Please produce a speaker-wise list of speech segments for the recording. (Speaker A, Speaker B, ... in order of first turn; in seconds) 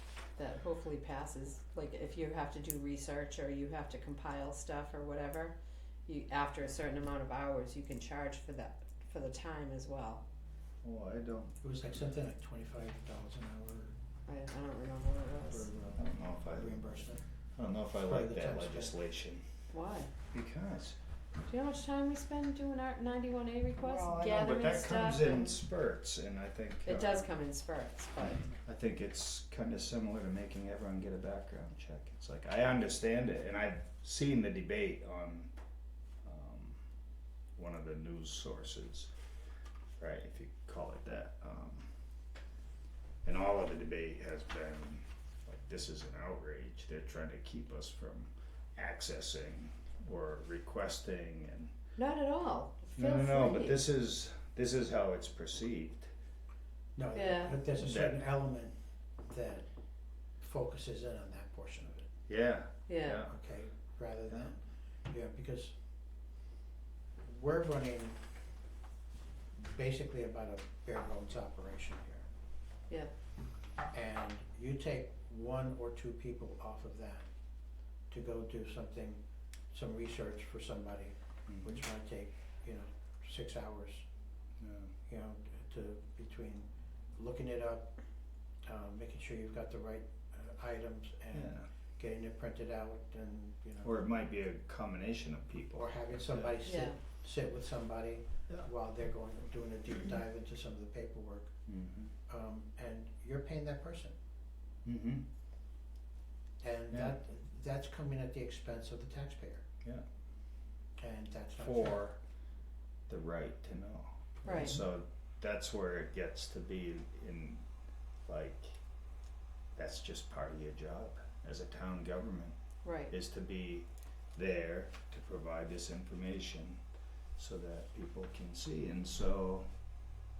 Speaker A: 0.3-10.2, 14.3-15.7, 19.7-20.1, 21.5-25.6, 26.9-28.5, 52.0-53.8, 57.1-57.6, 62.9-63.2, 96.6-97.0, 114.4-114.8, 122.8-123.1
Speaker B: 10.8-12.0, 15.9-19.5, 20.3-21.0, 23.8-27.3, 28.2-35.5, 36.2-36.8, 37.5-39.1, 40.0-41.9, 43.2-51.7, 53.0-56.1, 57.8-58.2, 62.3-63.4, 81.5-81.8, 84.6-85.0, 91.3-91.7, 93.8-96.5, 101.7-102.1, 104.8-105.2, 106.9-107.2, 111.6-112.2, 113.1-117.6, 118.2-118.8, 119.8-122.6, 123.1-126.8, 127.4-129.7
Speaker C: 11.6-13.9, 15.5-17.2, 18.0-19.0, 57.0-59.7, 60.4-62.1, 63.3-65.7, 67.2-68.2, 69.6-72.2, 73.9-77.3, 78.1-79.2, 79.7-84.0, 85.1-87.9, 88.6-93.9, 95.8-101.5, 102.3-104.1, 106.6-109.6, 111.0-112.1, 114.5-114.8